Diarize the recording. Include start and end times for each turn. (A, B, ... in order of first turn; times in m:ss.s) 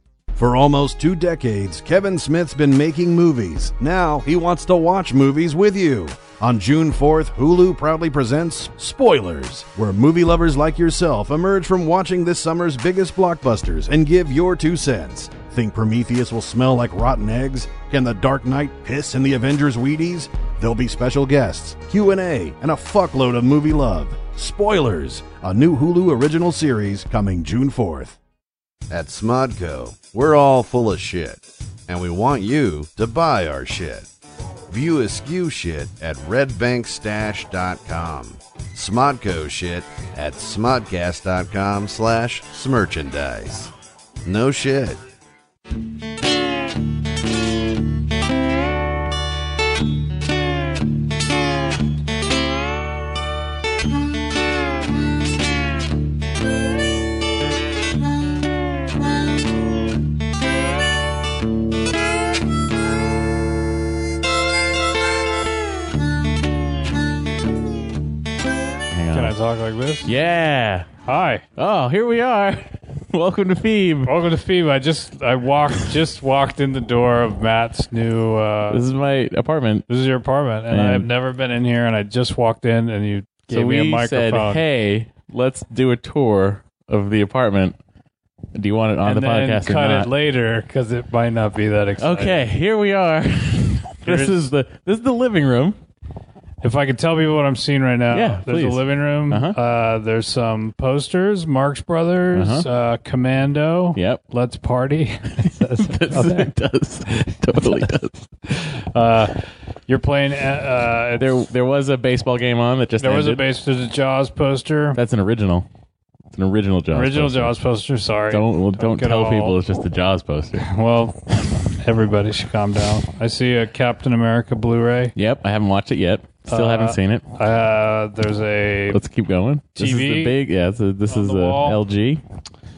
0:00.4-0:28.2 A
0:28.9-0:34.1 A
0:34.7-0:43.7 A
0:44.2-0:45.0 A
1:08.9-1:09.4 B
1:09.1-1:10.1 C
1:10.0-1:10.9 B
1:11.0-1:11.4 C
1:11.6-1:14.1 B
1:14.1-1:18.8 C
1:18.7-1:19.9 B
1:19.9-1:24.6 C
1:20.7-1:21.1 B
1:23.5-1:27.8 B
1:28.6-1:30.1 B
1:29.0-1:32.4 C
1:32.0-1:35.8 B
1:34.0-1:34.5 C
1:36.6-1:46.5 C
1:38.1-1:39.6 B
1:42.3-1:42.7 B
1:44.0-1:44.2 B
1:45.7-1:48.2 B
1:47.3-1:47.9 C
1:48.5-1:51.5 C
1:51.2-1:53.4 B
1:53.0-1:55.0 C
1:55.0-1:55.7 B
1:56.3-1:57.5 B
1:56.9-1:59.6 C
1:58.3-2:00.7 B
2:00.6-2:05.2 C
2:05.2-2:07.2 B
2:06.5-2:09.0 C
2:08.9-2:12.2 B
2:09.8-2:10.4 C
2:11.1-2:11.8 C